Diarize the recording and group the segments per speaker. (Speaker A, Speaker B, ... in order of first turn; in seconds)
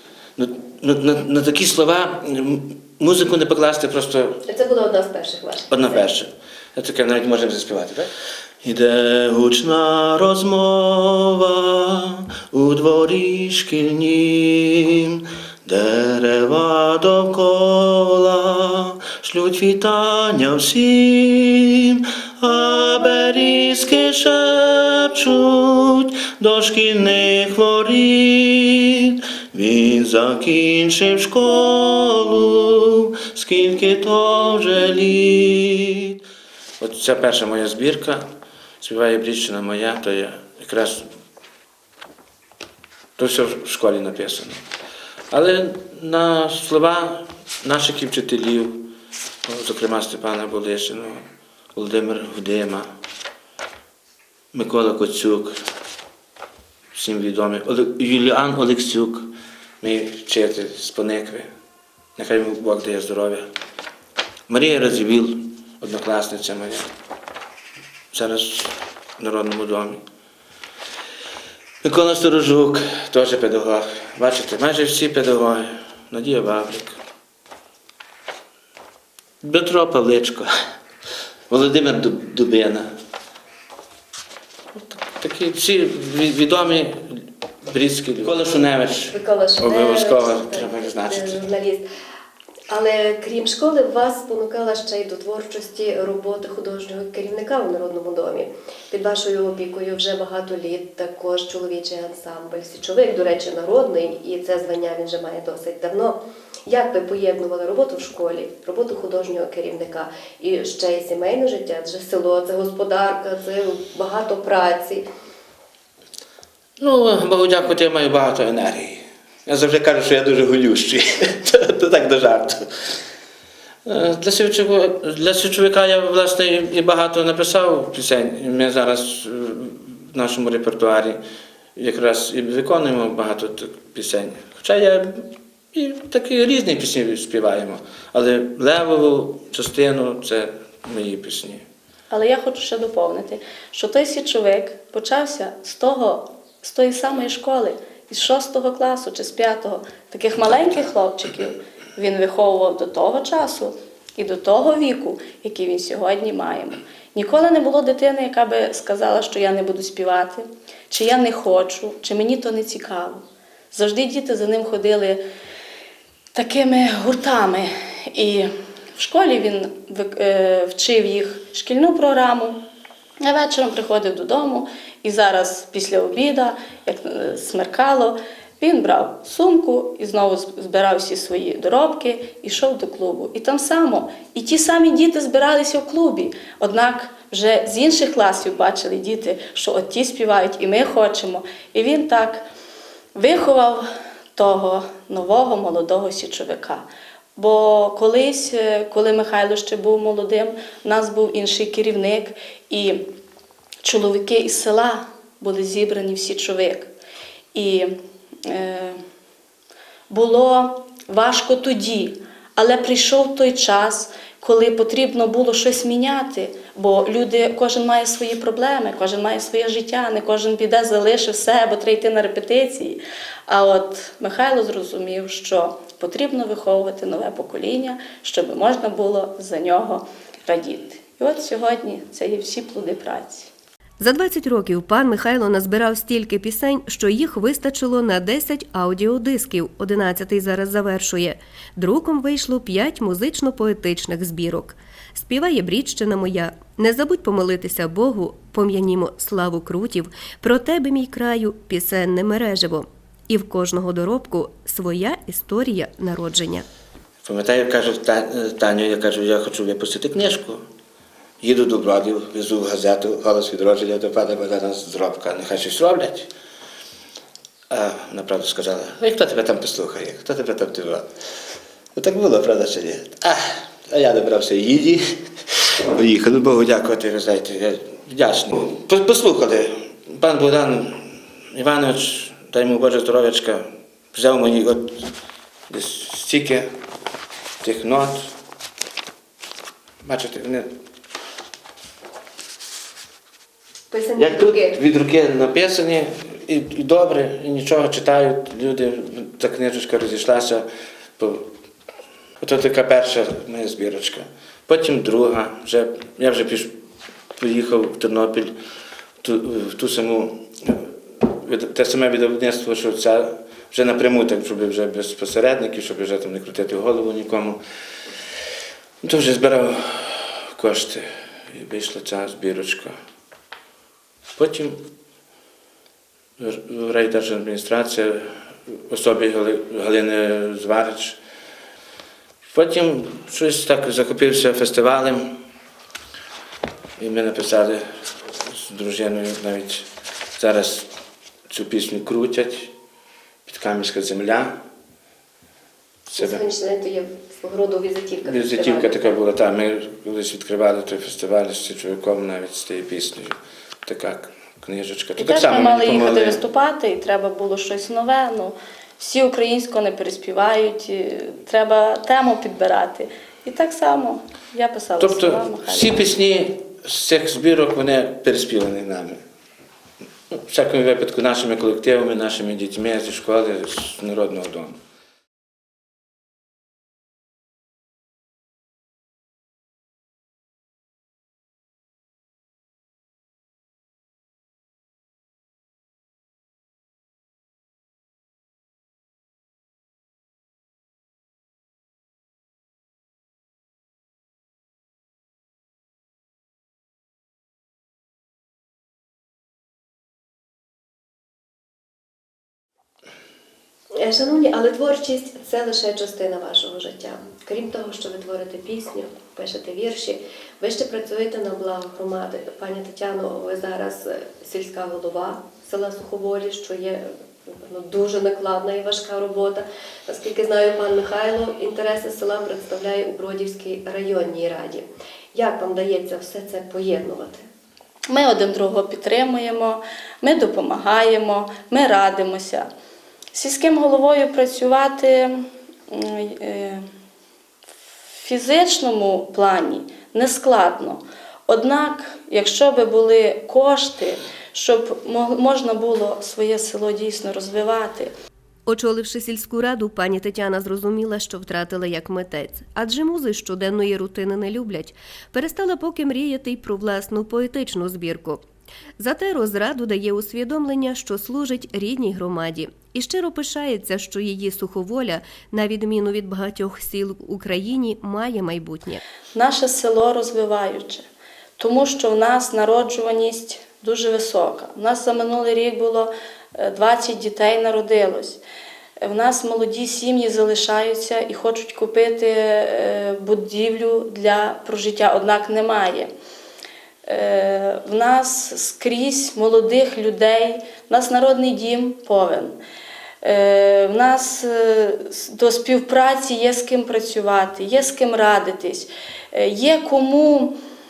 Speaker A: 0.4-4.4, 5.7-8.1, 8.6-36.2, 36.8-38.2, 38.8-41.0, 43.2-44.6, 45.3-48.9, 49.5-51.2, 51.7-52.9, 54.5-55.5, 56.9-59.2, 59.8-61.5, 62.2-63.4, 64.5-66.8, 68.1-70.0, 71.8-77.0, 79.4-80.5, 81.5-82.9, 84.7-91.4, 116.8-122.9, 123.9-131.2, 131.8-141.6, 257.2-260.6, 261.4-266.3, 267.7-271.0, 271.9-285.1, 285.7-286.7, 287.6-288.3, 290.0-290.7, 294.2-300.6, 301.2-301.5, 302.4-306.7, 307.4-308.5, 309.2-317.6, 319.0-322.9, 324.4-324.8, 326.4-331.2, 332.5-335.4, 337.0-340.9, 341.5-342.7, 343.4-344.6, 346.2-346.4, 348.2-356.4, 365.0-369.2, 370.3-374.8
Speaker B: 4.5-6.0, 89.1-91.8, 92.7-115.0, 234.0-256.7, 293.9-294.8, 346.1-349.1, 404.0-427.4, 448.7-458.4, 459.0-469.0
Speaker C: 142.1-165.2, 166.3-172.6, 173.2-192.4, 193.2-193.8, 194.3-196.8, 197.4-203.1, 203.8-206.9, 207.5-209.0, 210.1-233.5, 355.2-366.0, 428.1-432.7, 433.3-436.8, 438.2-448.1, 469.3-471.1, 471.6-478.4, 479.0-486.1, 487.1-492.6, 493.2-500.6